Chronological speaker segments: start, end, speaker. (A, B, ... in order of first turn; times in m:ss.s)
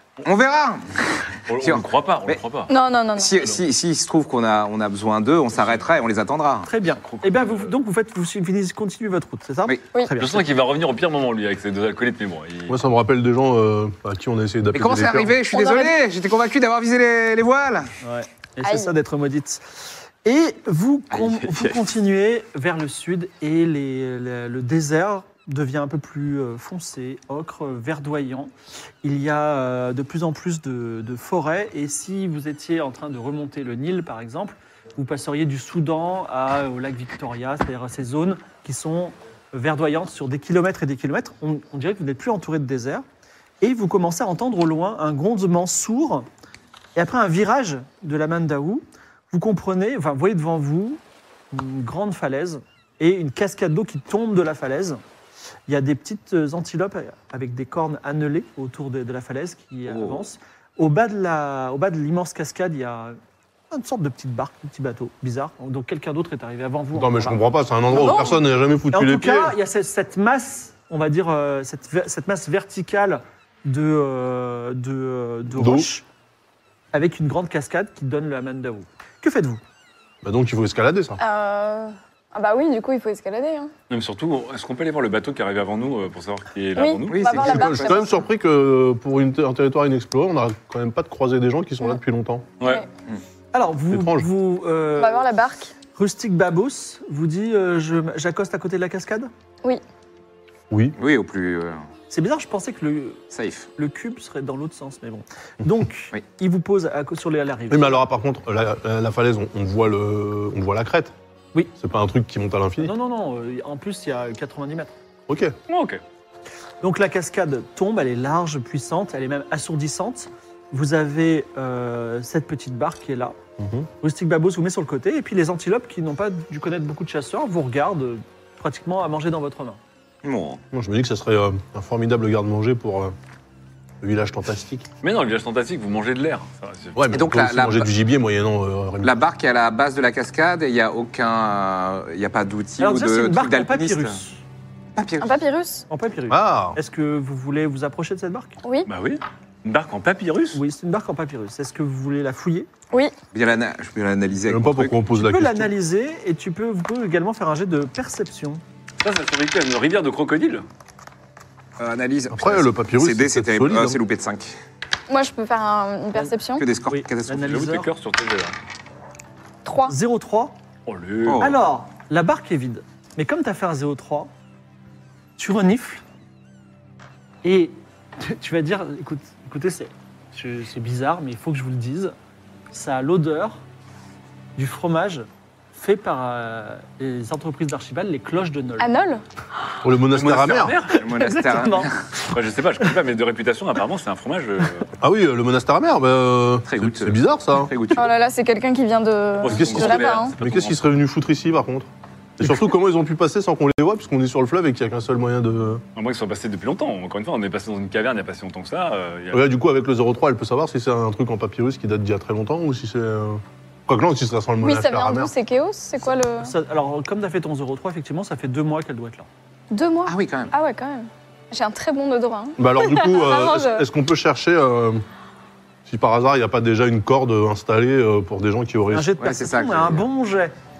0:00.2-0:02.4 A
0:01.5-0:02.7 B
0:02.7-0:03.4 C
0:03.2-0:06.7 A
0:05.6-0:05.8 B
0:06.6-0:10.5 D
0:07.0-0:07.7 B
0:10.2-0:12.8 B
0:12.7-0:15.4 E
0:14.7-0:17.9 A
0:15.5-0:16.0 C
0:18.0-0:28.5 D
0:18.6-0:18.9 C
0:21.2-0:21.6 A
0:29.0-0:43.0 D
0:43.6-0:46.3 D
0:47.0-0:51.0 D
0:51.5-0:55.0 D
0:55.7-1:03.2 D
0:59.9-1:00.2 A
1:03.7-1:08.2 D
1:06.9-1:09.6 E
1:07.9-1:08.4 C
1:08.9-1:16.0 D
1:15.6-1:15.9 E
1:16.9-1:19.6 D
1:20.2-1:21.2 E
1:21.2-1:23.7 C
1:23.9-1:27.5 B
1:26.8-1:28.2 C
1:27.1-1:28.1 A
1:27.4-1:32.5 E
1:32.6-1:32.8 B
1:33.5-1:35.3 D
1:33.9-1:34.3 E
1:35.0-1:35.7 C
1:35.9-1:39.3 D
1:40.7-1:41.0 E
1:41.0-1:41.8 A
1:42.1-1:43.2 D
1:43.3-1:43.7 A
1:43.8-1:48.0 D
1:47.7-1:51.1 E
1:51.8-1:52.9 E
1:52.8-1:54.9 D
1:55.3-1:55.5 E
1:55.7-1:56.0 B
1:56.8-2:03.4 D
2:03.6-2:03.9 E
2:04.0-2:09.8 D
2:10.2-2:10.6 A
2:10.7-2:13.1 E
2:14.0-2:14.9 E
2:15.0-2:17.0 B
2:16.9-2:19.2 E
2:17.1-2:17.9 A
2:19.0-2:24.2 A
2:22.8-2:24.4 D
2:25.0-2:25.4 A
2:25.2-2:25.8 C
2:25.9-2:28.6 D
2:26.3-2:26.8 E
2:28.6-2:28.9 C
2:28.9-2:30.6 B
2:30.5-2:32.7 D
2:33.3-2:35.0 A
2:34.5-2:35.7 E
2:35.1-2:38.6 D
2:39.0-2:40.6 B
2:41.8-2:44.6 A
2:42.3-2:44.0 E
2:45.1-2:46.6 C
2:46.6-2:47.5 A
2:46.9-2:47.9 D
2:47.4-2:48.5 B
2:49.6-2:49.9 C
2:49.9-2:50.5 D
2:50.8-2:51.5 B
2:51.2-2:51.6 A
2:51.4-2:54.3 D
2:55.4-2:56.0 D
2:57.4-3:02.1 D
3:02.7-3:03.6 D
3:04.6-3:08.9 D
3:08.8-3:09.2 C
3:09.8-3:10.8 E
3:10.1-3:11.0 B
3:10.8-3:12.0 A
3:11.1-3:11.9 D
3:12.3-3:14.9 B
3:15.0-3:17.7 E
3:16.6-3:18.1 A
3:17.9-3:20.3 C
3:19.4-3:20.8 B
3:19.4-3:25.8 E
3:25.9-3:29.4 B
3:29.3-3:35.3 E
3:34.6-3:36.5 C
3:36.4-3:39.3 D
3:39.7-3:43.8 C
3:40.0-3:40.5 A
3:42.6-3:45.0 E
3:45.8-3:49.1 E
3:48.9-3:50.5 D
3:49.2-3:50.0 A